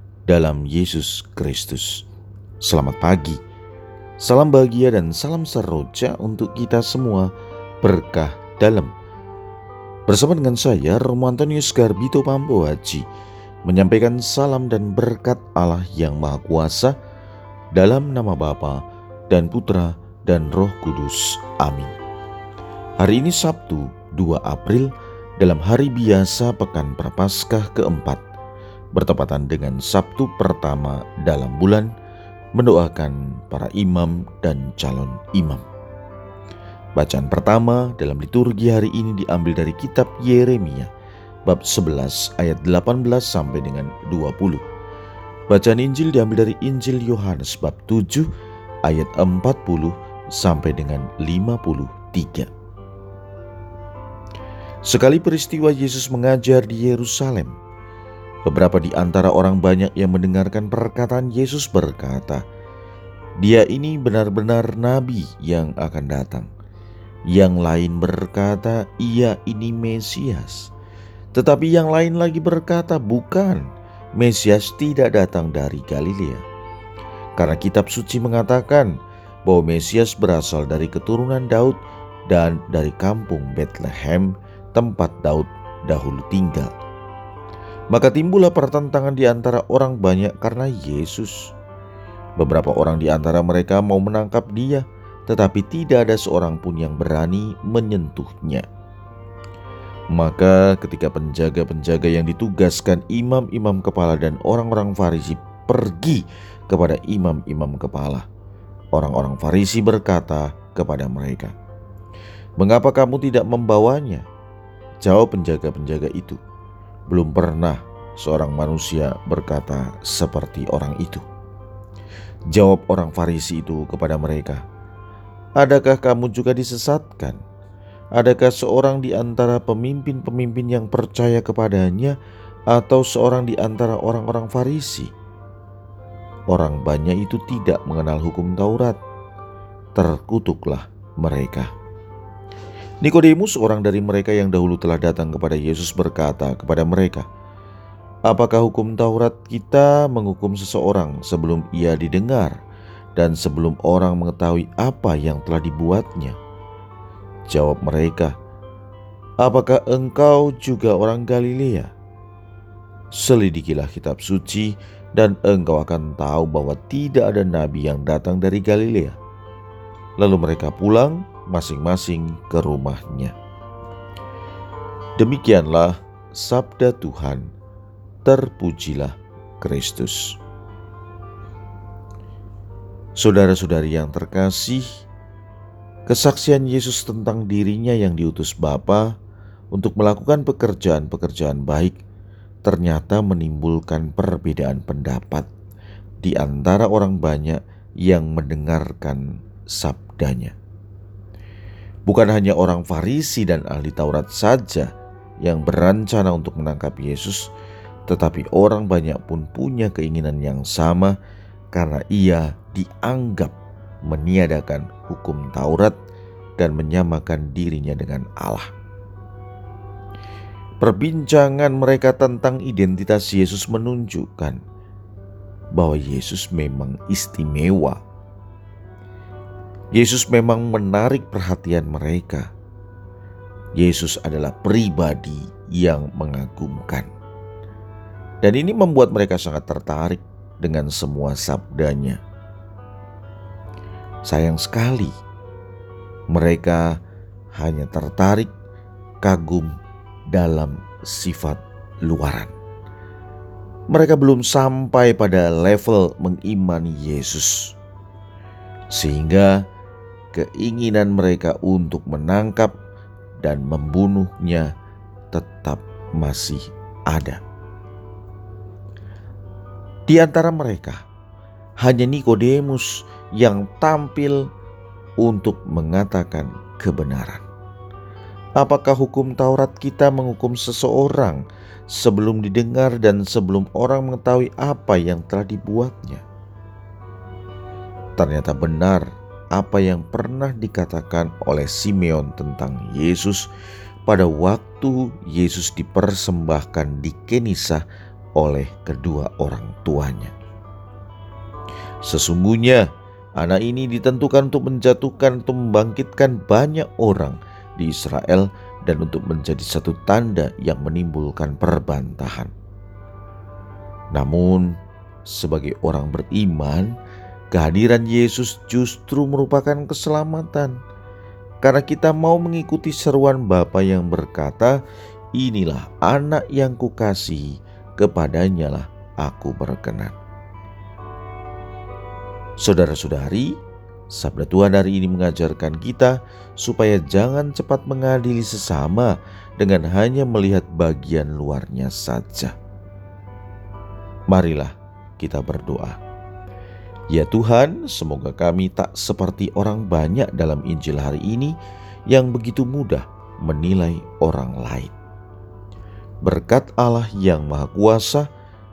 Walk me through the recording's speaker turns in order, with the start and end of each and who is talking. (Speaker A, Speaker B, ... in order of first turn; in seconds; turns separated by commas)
Speaker A: 0.3-2.0, Speaker A: 2.6-3.4, Speaker A: 4.2-8.9, Speaker A: 10.1-13.1, Speaker A: 13.6-17.0, Speaker A: 17.7-21.9, Speaker A: 23.0-28.2, Speaker A: 28.9-31.9, Speaker A: 32.5-35.6, Speaker A: 37.0-40.9, Speaker A: 41.5-44.6, Speaker A: 45.5-48.3, Speaker A: 48.8-52.5, Speaker A: 54.9-57.5, Speaker A: 58.5-62.4, Speaker A: 63.4-66.5, Speaker A: 67.3-70.7, Speaker A: 71.3-76.4, Speaker A: 77.4-78.9, Speaker A: 79.5-86.7, Speaker A: 87.9-91.5, Speaker A: 92.4-98.7, Speaker A: 100.1-108.3, Speaker A: 108.9-111.5, Speaker A: 112.6-114.2, Speaker A: 115.0-116.4, Speaker A: 117.1-121.2, Speaker A: 122.5-124.6, Speaker A: 125.6-127.4, Speaker A: 128.2-132.2, Speaker A: 132.7-135.1, Speaker A: 136.5-139.0, Speaker A: 139.9-141.7, Speaker A: 143.0-147.3, Speaker A: 148.3-152.6, Speaker A: 153.2-156.4, Speaker A: 157.5-158.3, Speaker A: 159.4-161.9, Speaker A: 163.1-169.2, Speaker A: 170.2-173.3, Speaker A: 175.2-177.5, Speaker A: 178.2-180.4, Speaker A: 183.2-184.9, Speaker A: 186.1-189.1, Speaker A: 189.7-192.0, Speaker A: 192.6-195.5, Speaker A: 196.2-200.5, Speaker A: 202.1-207.5, Speaker A: 208.1-211.2, Speaker A: 211.7-215.9, Speaker A: 216.6-218.7, Speaker A: 220.8-224.6, Speaker A: 225.7-228.0, Speaker A: 229.9-232.5, Speaker A: 233.8-237.1, Speaker A: 238.4-242.2, Speaker A: 244.2-245.1, Speaker A: 246.3-247.0, Speaker A: 247.5-248.5, Speaker A: 249.2-249.7, Speaker A: 250.3-252.5, Speaker A: 253.9-257.8, Speaker A: 258.9-259.6, Speaker A: 260.3-262.8, Speaker A: 263.4-264.7, Speaker A: 265.3-267.4, Speaker A: 270.1-271.0, Speaker A: 271.8-274.5, Speaker A: 275.2-277.4, Speaker A: 278.6-286.2, Speaker A: 288.2-293.5, Speaker A: 294.1-297.8, Speaker A: 298.4-300.3, Speaker A: 302.0-312.5, Speaker A: 314.1-316.9, Speaker A: 317.5-320.8, Speaker A: 321.6-324.8, Speaker A: 325.3-330.1, Speaker A: 332.6-333.6, Speaker A: 334.1-342.5, Speaker A: 344.3-346.0, Speaker A: 347.1-351.6, Speaker A: 352.1-354.9, Speaker A: 356.2-358.3